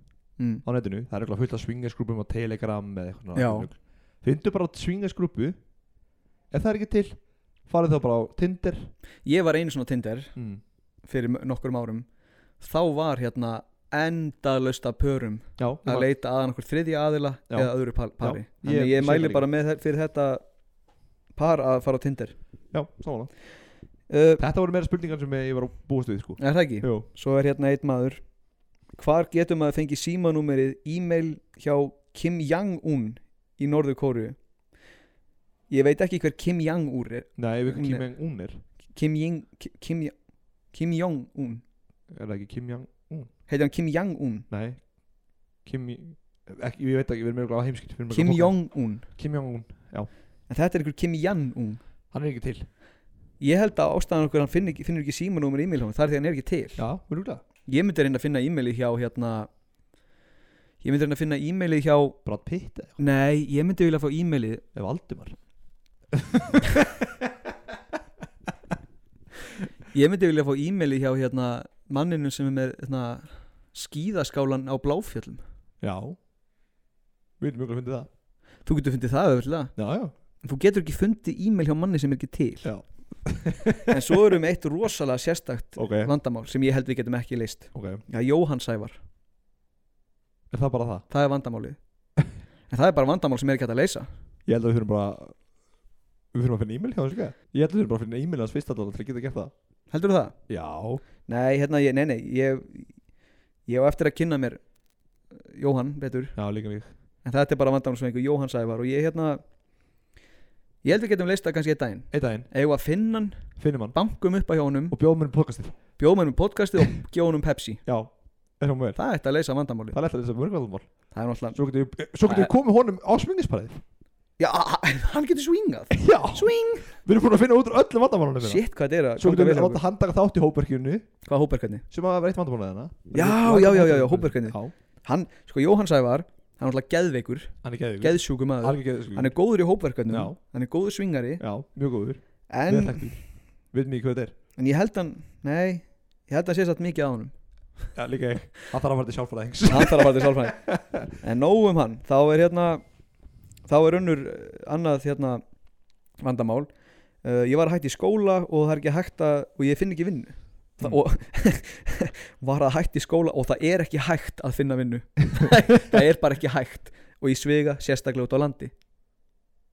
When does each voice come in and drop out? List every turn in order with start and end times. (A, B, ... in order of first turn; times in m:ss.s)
0:00.4-0:00.6 A
0:00.6-0:05.6 B
0:03.4-0:03.7 A
0:06.5-0:08.9 B
0:09.2-0:10.3 A
0:10.4-0:10.6 B
0:11.1-0:12.1 A
0:12.6-0:20.4 A
0:15.6-0:16.1 B
0:17.5-0:19.4 B
0:21.4-0:22.4 A
0:22.7-0:23.3 B
0:24.1-0:24.4 A
0:24.4-0:27.1 B
0:26.4-0:28.2 A
0:29.0-0:34.4 A
0:35.7-0:38.1 A
0:37.4-0:38.6 B
0:38.9-0:40.2 A
0:40.7-0:41.6 A
0:42.1-0:43.3 B
0:43.5-0:44.5 A
0:44.5-0:44.8 B
0:45.6-0:50.1 B
0:48.1-0:49.1 A
0:50.5-0:51.8 A
0:52.1-0:52.7 B
0:53.4-0:56.8 A
0:56.8-0:57.4 B
0:57.7-0:59.5 A
1:00.8-1:02.2 A
1:02.2-1:03.0 B
1:03.0-1:04.6 A
1:04.7-1:05.4 B
1:06.1-1:07.5 B
1:09.9-1:15.4 A
1:15.8-1:16.2 B
1:17.4-1:18.1 B
1:18.6-1:19.7 A
1:19.8-1:20.1 B
1:20.4-1:22.7 A
1:22.6-1:24.3 B
1:23.8-1:29.0 A
1:25.8-1:26.1 B
1:27.7-1:28.0 B
1:30.5-1:31.0 B
1:31.1-1:31.8 A
1:32.7-1:34.1 A
1:34.5-1:35.4 B
1:36.3-1:39.5 B
1:39.9-1:40.4 A
1:40.5-1:41.0 B
1:41.3-1:42.9 A
1:43.7-1:44.6 A
1:45.3-1:46.4 A
1:46.4-1:46.9 B
1:47.2-1:49.4 A
1:50.8-1:55.0 A
1:52.1-1:52.5 B
1:53.6-1:54.0 B
1:54.9-1:55.8 B
1:56.0-1:57.8 A
1:57.9-1:59.0 B
1:59.0-2:00.0 A
1:59.9-2:00.9 B
2:01.1-2:01.6 A
2:01.5-2:03.8 B
2:02.3-2:02.5 A
2:04.4-2:06.9 A
2:05.9-2:08.6 B
2:08.4-2:09.8 A
2:09.2-2:11.0 B
2:11.2-2:11.8 A
2:11.9-2:14.7 B
2:13.1-2:21.4 A
2:17.6-2:19.3 B
2:20.1-2:20.4 B
2:21.4-2:24.3 B
2:22.5-2:23.1 A
2:24.6-2:27.3 A
2:28.0-2:31.1 B
2:29.7-2:30.6 A
2:31.1-2:32.8 A
2:33.7-2:35.4 A
2:36.2-2:36.7 A
2:37.2-2:48.7 A